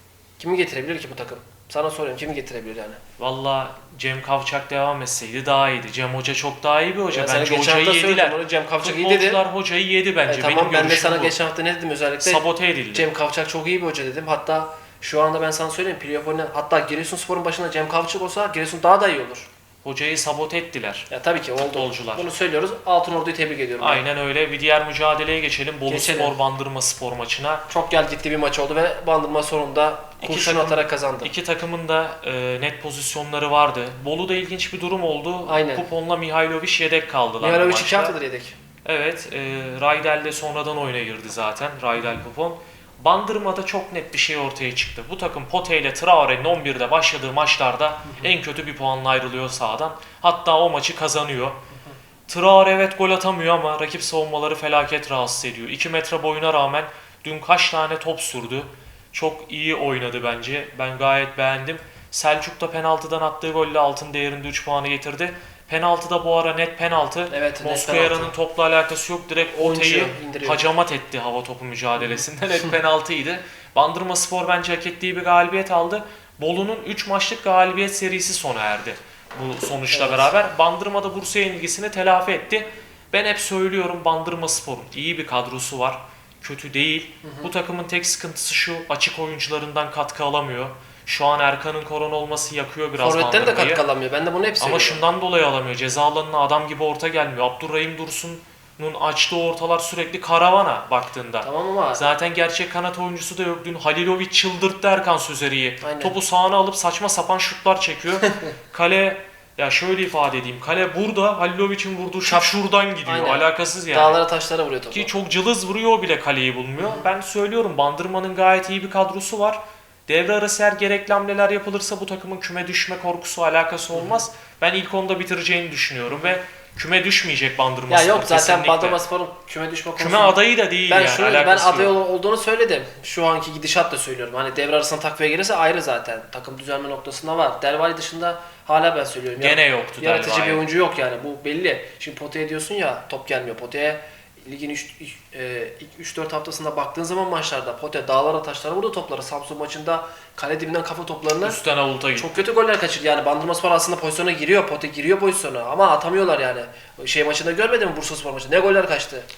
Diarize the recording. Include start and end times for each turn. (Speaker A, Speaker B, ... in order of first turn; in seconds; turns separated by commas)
Speaker A: 0.4-3.0, Speaker B: 3.2-11.3, Speaker A: 7.1-9.4, Speaker A: 10.3-19.5, Speaker B: 12.2-13.1, Speaker B: 19.8-21.1, Speaker A: 21.1-24.0, Speaker B: 21.6-22.3, Speaker B: 23.8-27.6, Speaker A: 25.9-26.3, Speaker A: 27.7-31.3, Speaker B: 30.2-38.1, Speaker A: 35.5-35.8, Speaker A: 37.4-38.5, Speaker B: 38.8-51.6, Speaker B: 52.3-93.8, Speaker A: 67.3-68.3, Speaker A: 69.5-70.6, Speaker A: 79.9-80.3, Speaker A: 87.2-87.5, Speaker A: 93.0-95.0, Speaker B: 94.6-114.2, Speaker A: 101.4-102.1, Speaker A: 105.8-106.1, Speaker A: 112.2-115.1, Speaker B: 114.9-129.0, Speaker A: 123.9-124.2, Speaker A: 127.9-130.4, Speaker B: 130.0-131.9, Speaker A: 130.9-151.6, Speaker B: 139.4-140.6, Speaker B: 151.4-152.4, Speaker A: 152.1-159.3